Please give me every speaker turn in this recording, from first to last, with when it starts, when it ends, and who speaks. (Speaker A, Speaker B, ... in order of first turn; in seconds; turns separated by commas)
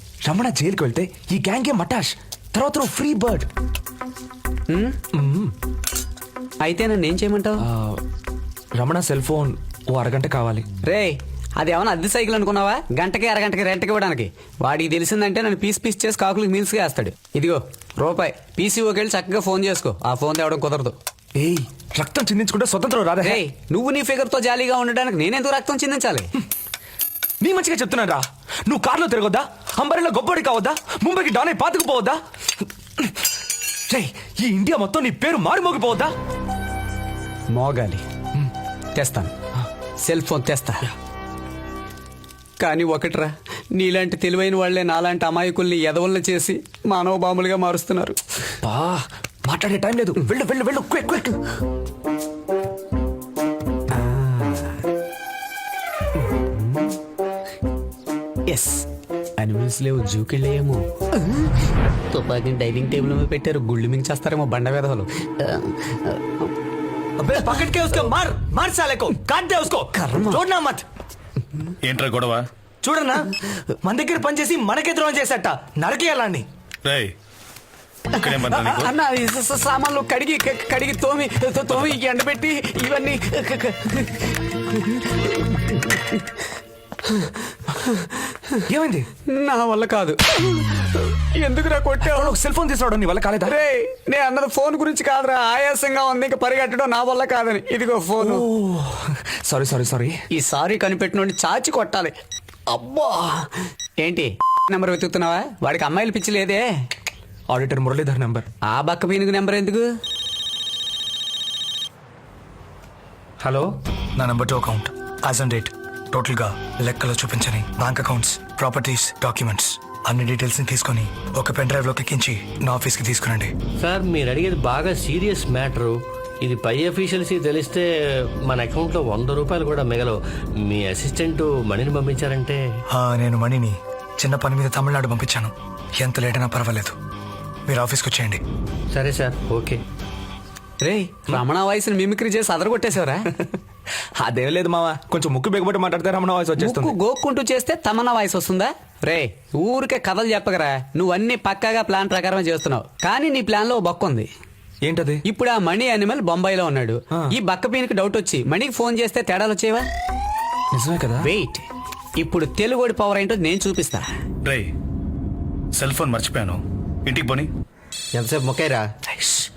Speaker A: 0.2-3.5, Speaker B: 4.7-5.0, Speaker A: 5.1-5.5, Speaker B: 6.6-7.7, Speaker A: 7.6-8.0, Speaker A: 8.8-10.6, Speaker B: 10.8-20.9, Speaker A: 21.4-23.4, Speaker B: 23.2-26.3, Speaker A: 27.4-32.2, Speaker A: 33.9-36.1, Speaker B: 37.5-38.0, Speaker B: 39.0-39.3, Speaker B: 40.0-40.9, Speaker B: 42.6-48.2, Speaker A: 48.6-51.4, Speaker B: 53.9-54.8, Speaker B: 56.2-57.0, Speaker B: 58.5-58.8, Speaker B: 59.4-61.5, Speaker B: 62.1-66.2, Speaker A: 67.2-70.8, Speaker B: 69.9-70.4, Speaker C: 71.8-72.5, Speaker A: 72.8-76.4, Speaker C: 76.8-77.1, Speaker C: 78.1-78.9, Speaker B: 78.1-86.2, Speaker B: 87.1-88.6, Speaker A: 88.7-89.1, Speaker B: 89.3-92.3, Speaker A: 92.0-93.5, Speaker B: 93.4-98.5, Speaker A: 98.2-100.1, Speaker B: 100.3-102.1, Speaker B: 102.7-103.5, Speaker B: 104.0-106.7, Speaker A: 107.5-108.5, Speaker B: 108.7-109.9, Speaker D: 113.4-113.7, Speaker E: 114.2-114.6, Speaker E: 115.2-123.4, Speaker D: 123.8-132.6, Speaker E: 132.9-136.9, Speaker E: 137.7-138.4, Speaker D: 138.9-139.8, Speaker B: 140.8-143.3, Speaker A: 144.2-146.9, Speaker B: 146.6-154.3, Speaker A: 154.8-155.2, Speaker B: 155.2-159.8, Speaker A: 160.7-161.3, Speaker B: 161.2-161.7, Speaker B: 162.2-164.1, Speaker C: 164.4-164.7, Speaker C: 165.7-167.5